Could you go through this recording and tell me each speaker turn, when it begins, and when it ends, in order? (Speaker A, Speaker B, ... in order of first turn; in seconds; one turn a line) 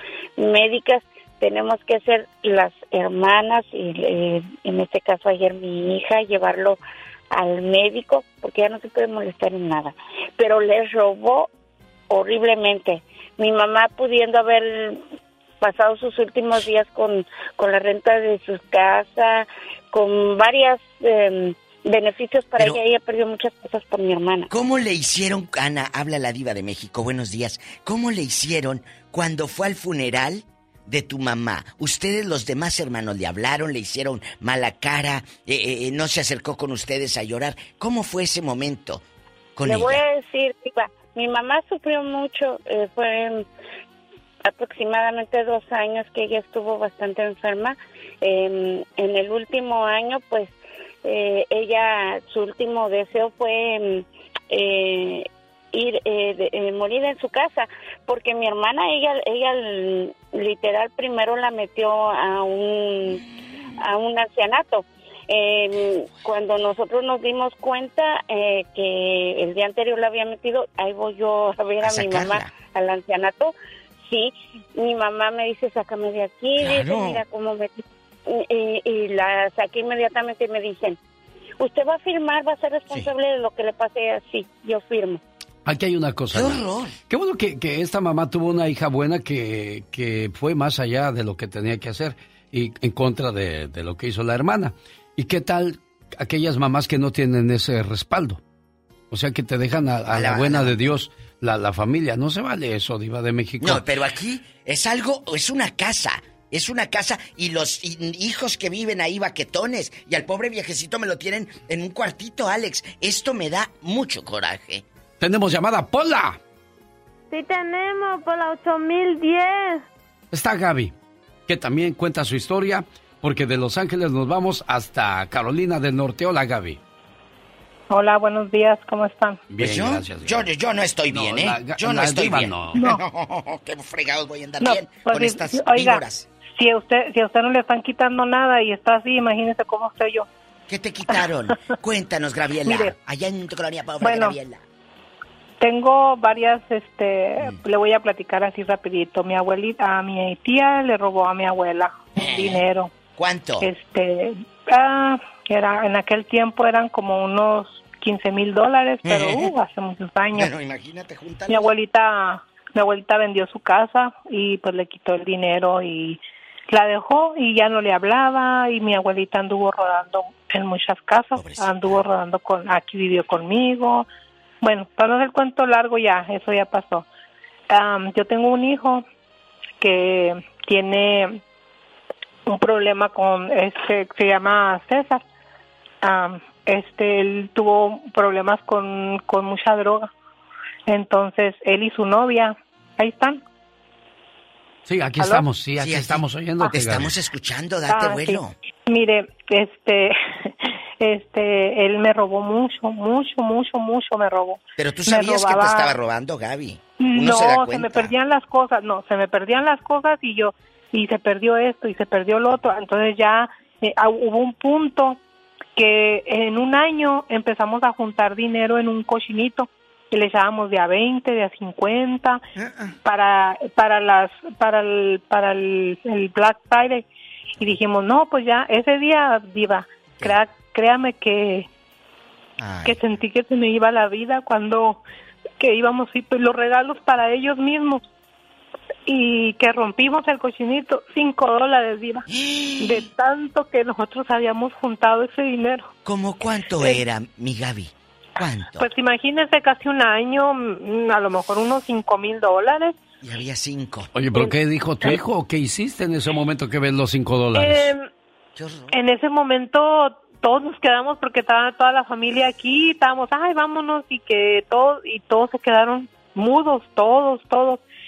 Speaker A: 0.4-6.8
Speaker A: 7.3-11.5
Speaker A: 12.1-15.0
Speaker A: 15.6-24.5
Speaker B: 22.6-22.8
Speaker B: 24.5-39.0
Speaker B: 39.6-40.0
Speaker A: 39.7-43.5
Speaker A: 44.5-50.5
Speaker A: 51.0-63.2
Speaker A: 63.8-73.5
Speaker B: 71.8-72.6
Speaker A: 74.1-77.7
Speaker B: 76.6-77.2
Speaker A: 78.3-81.0
Speaker A: 81.6-85.2
Speaker C: 85.7-98.4
Speaker B: 86.3-87.0
Speaker C: 99.1-103.8
Speaker B: 100.1-100.9
Speaker B: 103.6-114.8
Speaker C: 115.2-116.4
Speaker D: 117.3-119.8
Speaker C: 120.3-120.9
Speaker C: 121.5-126.8
Speaker E: 127.9-129.4
Speaker C: 129.5-130.5
Speaker B: 129.6-136.3
Speaker C: 131.1-132.8
Speaker E: 134.6-140.3
Speaker B: 140.7-144.6
Speaker E: 142.7-142.9
Speaker E: 144.0-144.4
Speaker E: 145.6-152.9
Speaker B: 152.2-153.7
Speaker E: 153.6-160.5
Speaker B: 159.0-159.5
Speaker B: 160.3-161.7
Speaker E: 161.5-166.2
Speaker E: 166.7-174.1
Speaker B: 171.3-172.2
Speaker E: 174.6-177.1
Speaker E: 177.7-179.1
Speaker E: 179.8-181.4
Speaker E: 182.5-185.2
Speaker E: 186.0-190.1
Speaker E: 190.9-193.4
Speaker C: 194.9-197.1
Speaker B: 195.8-198.6
Speaker E: 197.9-200.1
Speaker E: 201.0-205.9
Speaker B: 204.8-208.2
Speaker E: 207.0-215.2
Speaker E: 215.8-222.4
Speaker B: 222.6-222.9
Speaker E: 223.1-227.1
Speaker B: 227.6-227.8
Speaker E: 227.6-231.7
Speaker B: 232.6-233.2
Speaker E: 232.8-235.0
Speaker E: 235.6-238.0
Speaker E: 239.1-242.2
Speaker B: 242.3-243.1
Speaker E: 242.8-245.9
Speaker B: 246.1-248.9
Speaker E: 248.8-253.0
Speaker B: 253.2-254.1
Speaker C: 254.1-257.9
Speaker E: 257.6-258.0
Speaker B: 258.6-259.0
Speaker E: 258.9-267.8